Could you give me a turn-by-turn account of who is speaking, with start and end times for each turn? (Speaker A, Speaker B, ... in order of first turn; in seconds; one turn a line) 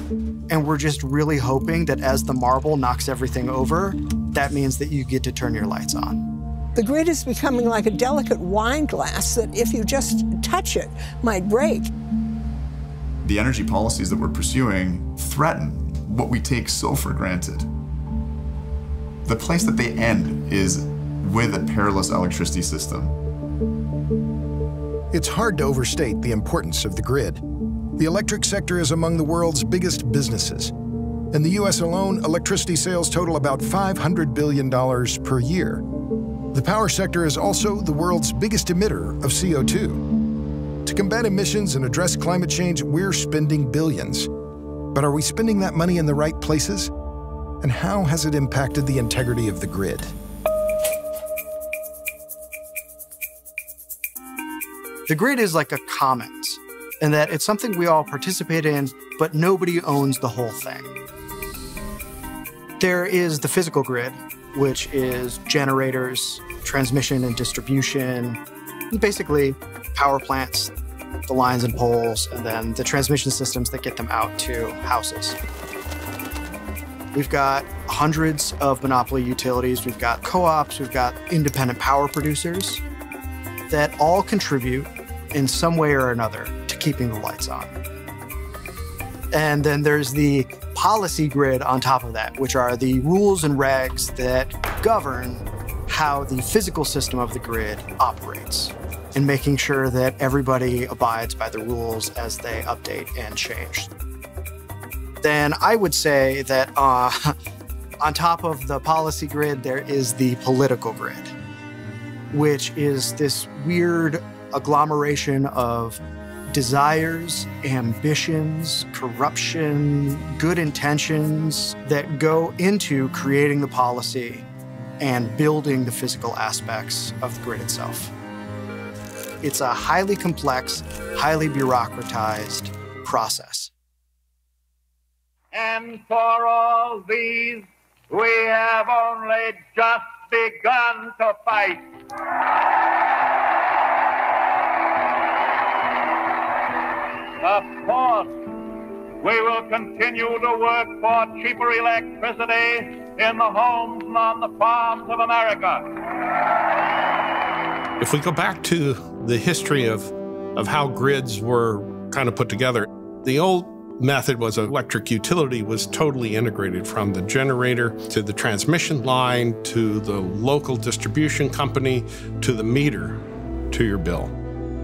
Speaker A: 0.5-6.2
Speaker B: 6.8-11.9
Speaker C: 13.2-17.7
Speaker C: 19.3-23.1
Speaker D: 25.1-27.4
Speaker D: 28.0-30.7
Speaker D: 31.3-35.8
Speaker D: 36.5-40.0
Speaker D: 40.9-44.3
Speaker D: 44.9-46.9
Speaker D: 47.6-50.1
Speaker A: 55.1-60.9
Speaker A: 62.8-68.4
Speaker A: 68.9-70.7
Speaker A: 71.3-75.4
Speaker A: 77.1-82.8
Speaker A: 83.7-87.8
Speaker A: 89.3-103.9
Speaker A: 105.2-107.3
Speaker A: 108.0-111.3
Speaker A: 112.3-116.0
Speaker A: 116.5-124.5
Speaker A: 125.0-128.1
Speaker A: 129.4-133.7
Speaker E: 135.5-141.8
Speaker E: 147.4-148.3
Speaker E: 149.2-155.9
Speaker F: 158.0-173.2
Speaker F: 173.7-174.3